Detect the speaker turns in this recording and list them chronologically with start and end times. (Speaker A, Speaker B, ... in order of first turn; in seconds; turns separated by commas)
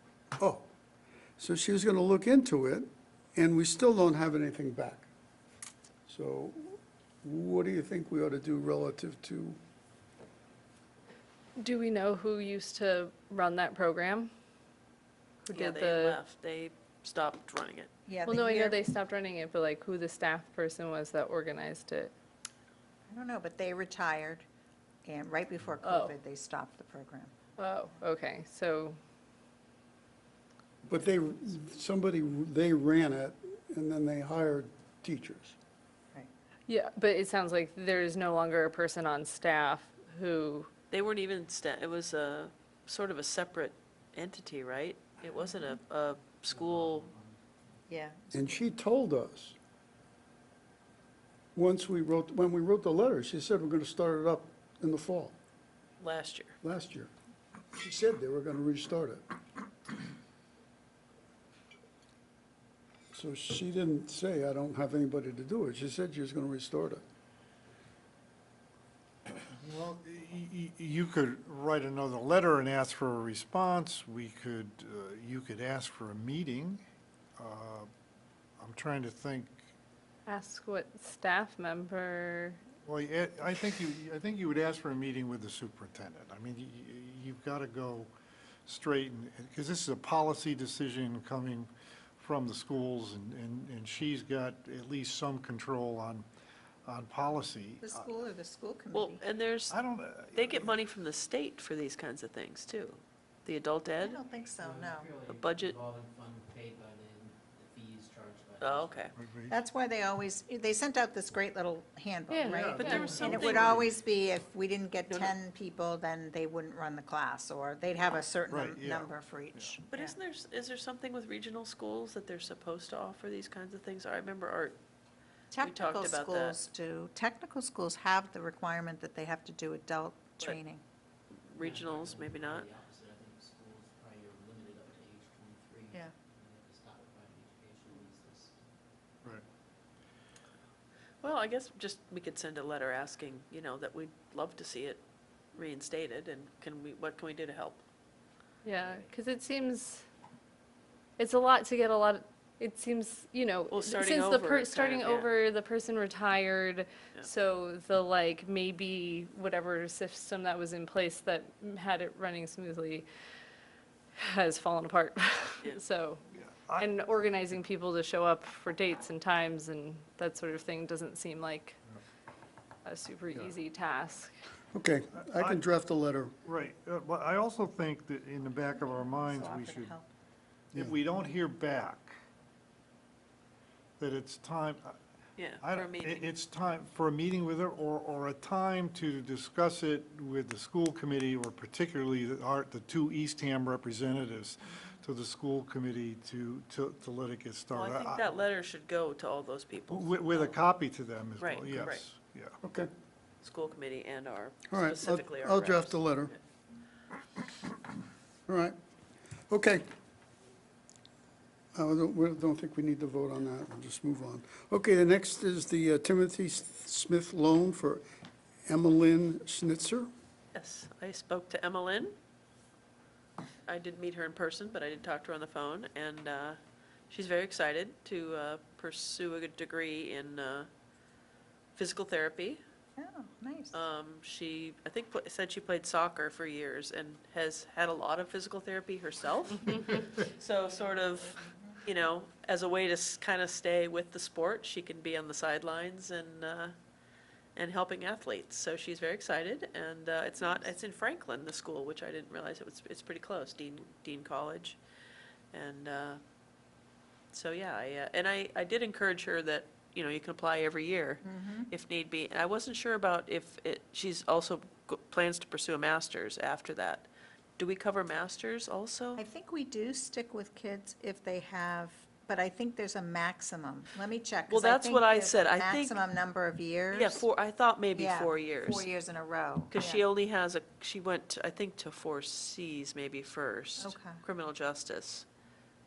Speaker A: 0.4-0.7, Speaker A: 1.4-5.1, Speaker A: 6.1-9.6, Speaker B: 11.6-14.3, Speaker B: 15.4-16.2, Speaker C: 15.5-17.9, Speaker D: 18.1-18.9, Speaker B: 18.2-22.1, Speaker D: 23.1-24.4, Speaker D: 25.0-27.3, Speaker B: 25.8-26.1, Speaker B: 27.6-29.0, Speaker A: 30.8-35.6, Speaker B: 36.7-40.7, Speaker C: 40.9-47.1, Speaker D: 47.9-48.5, Speaker A: 48.3-49.6, Speaker A: 51.5-55.4, Speaker C: 56.0-56.5, Speaker A: 56.6-57.1, Speaker A: 57.7-59.2, Speaker A: 63.1-67.0, Speaker E: 69.5-76.8, Speaker E: 77.4-77.9, Speaker E: 78.6-79.6, Speaker B: 80.2-82.6, Speaker E: 82.8-88.1, Speaker E: 88.7-96.2, Speaker E: 96.8-98.1, Speaker D: 97.8-99.2, Speaker C: 98.9-99.8, Speaker E: 99.7-100.8, Speaker C: 100.3-104.2, Speaker D: 104.0-105.1, Speaker F: 104.6-109.0, Speaker C: 105.3-105.8, Speaker C: 108.6-109.1, Speaker E: 109.1-109.5, Speaker D: 109.5-120.1, Speaker B: 112.3-113.4, Speaker E: 112.7-113.9, Speaker A: 112.8-113.3, Speaker C: 112.8-113.9, Speaker C: 115.1-115.3, Speaker E: 118.5-119.7, Speaker C: 119.9-124.8, Speaker D: 125.5-130.8, Speaker C: 125.6-126.5, Speaker C: 131.4-132.7, Speaker F: 131.6-138.7, Speaker C: 141.2-145.0, Speaker C: 145.5-147.8, Speaker B: 148.6-150.0, Speaker B: 151.2-163.1, Speaker C: 153.7-155.3, Speaker B: 164.2-166.2, Speaker E: 166.3-166.8, Speaker B: 166.8-171.8, Speaker B: 172.8-174.3, Speaker A: 174.7-176.3, Speaker E: 175.3-175.6, Speaker E: 176.4-179.9, Speaker D: 178.8-180.1, Speaker E: 180.7-182.1, Speaker E: 184.0-185.0, Speaker C: 185.4-186.3, Speaker E: 185.6-198.3, Speaker C: 197.7-200.5, Speaker E: 199.9-202.6, Speaker C: 201.4-202.0, Speaker A: 202.6-202.9, Speaker C: 203.4-206.0, Speaker A: 204.7-206.3, Speaker A: 208.5-208.8, Speaker A: 209.5-209.9, Speaker A: 211.7-218.0, Speaker A: 218.7-220.1, Speaker C: 220.5-222.1, Speaker C: 223.6-226.6, Speaker C: 227.1-230.7, Speaker C: 231.8-232.6, Speaker D: 232.9-233.8, Speaker C: 233.7-246.8, Speaker D: 241.3-241.8, Speaker C: 247.6-254.8, Speaker C: 255.5-256.2, Speaker C: 257.3-269.2, Speaker D: 261.2-261.7, Speaker D: 269.1-277.3, Speaker C: 274.5-276.0, Speaker C: 276.9-278.9, Speaker D: 277.9-280.0, Speaker C: 279.7-285.2, Speaker D: 283.8-284.2